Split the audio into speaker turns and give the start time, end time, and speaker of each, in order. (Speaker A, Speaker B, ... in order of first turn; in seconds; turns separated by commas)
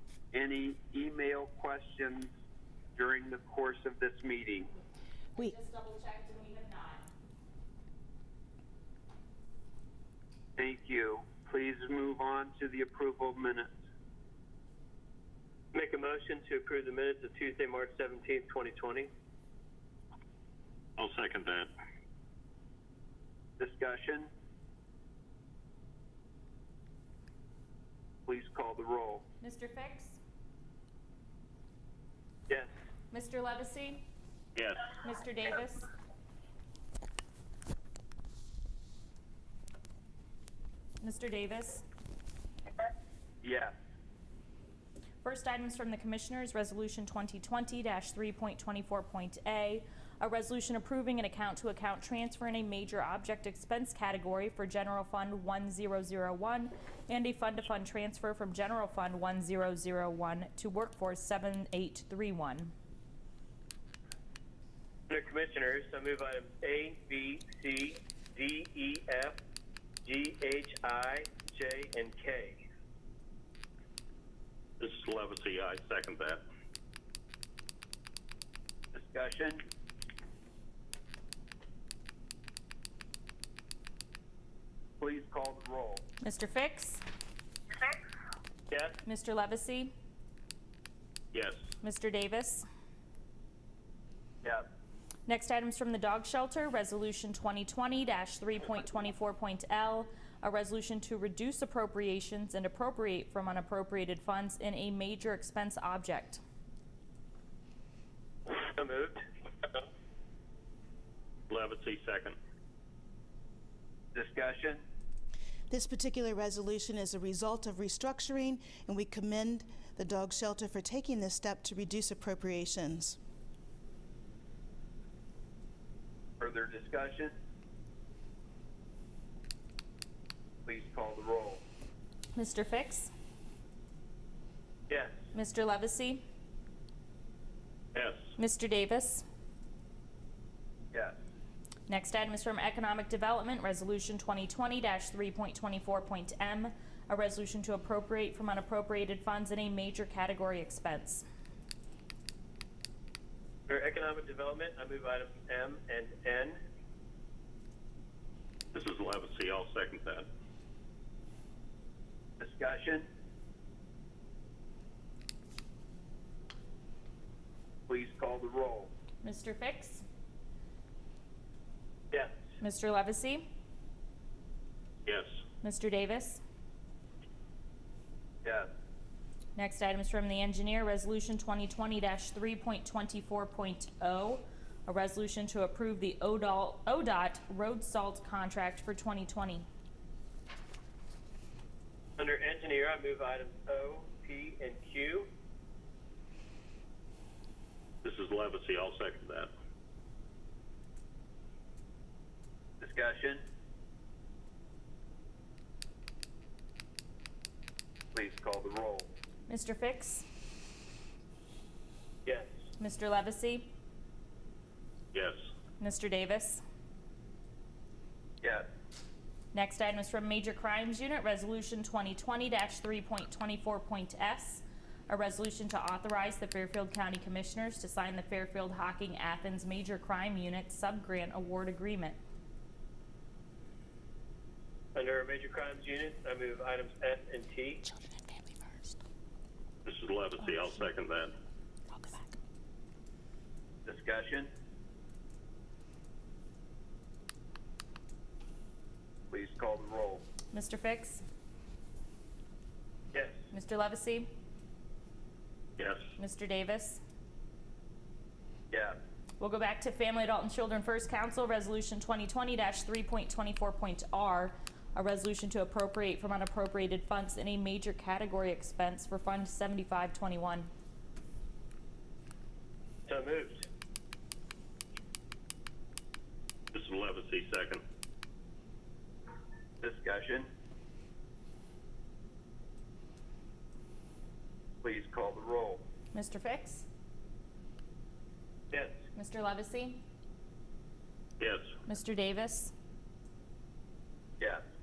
Speaker A: 0.3-2.3, Speaker A: 3.0-4.7, Speaker B: 5.4-7.0, Speaker A: 10.6-13.7, Speaker C: 15.7-19.1, Speaker D: 21.0-21.7, Speaker A: 23.6-24.3, Speaker A: 28.2-29.2, Speaker B: 29.4-30.2, Speaker B: 33.1-34.0, Speaker D: 34.5-34.9, Speaker B: 34.9-35.9, Speaker B: 41.0-41.8, Speaker A: 43.4-43.7, Speaker B: 45.2-62.7, Speaker C: 65.1-69.3, Speaker C: 70.0-72.6, Speaker D: 74.8-76.4, Speaker A: 78.9-79.6, Speaker A: 85.0-86.0, Speaker B: 86.2-87.0, Speaker C: 88.7-89.0, Speaker B: 89.0-89.9, Speaker D: 91.3-91.6, Speaker B: 91.8-92.6, Speaker B: 95.3-106.4, Speaker C: 108.5-109.2, Speaker D: 111.5-112.3, Speaker A: 114.1-114.8, Speaker E: 115.7-123.2, Speaker A: 126.4-127.3, Speaker A: 130.6-131.6, Speaker B: 132.3-133.1, Speaker B: 135.3-136.2, Speaker D: 137.9-138.2, Speaker B: 138.4-139.2, Speaker A: 140.9-141.2, Speaker B: 141.9-151.2, Speaker C: 153.7-156.6, Speaker D: 158.7-160.3, Speaker A: 162.4-163.0, Speaker A: 167.9-168.9, Speaker B: 169.2-170.0, Speaker B: 172.6-173.4, Speaker B: 175.6-176.4, Speaker A: 178.4-178.7, Speaker B: 179.6-189.7, Speaker C: 192.2-195.3, Speaker D: 198.0-199.5, Speaker A: 202.8-203.4, Speaker A: 208.1-209.1, Speaker B: 209.5-210.3, Speaker B: 212.8-213.7, Speaker D: 215.1-215.4, Speaker B: 215.8-216.6, Speaker B: 219.5-232.2, Speaker C: 234.9-237.8, Speaker D: 239.8-241.3, Speaker A: 243.8-244.5, Speaker A: 249.3-250.2, Speaker B: 250.5-251.2, Speaker B: 253.5-254.3, Speaker D: 255.8-256.1, Speaker B: 256.2-257.0, Speaker A: 258.7-259.0, Speaker B: 259.4-270.7, Speaker C: 273.1-273.6, Speaker D: 276.7-277.8, Speaker A: 279.8-280.5, Speaker A: 284.8-285.8, Speaker B: 286.1-286.9, Speaker B: 289.1-290.0, Speaker D: 291.4-291.6, Speaker B: 291.9-292.7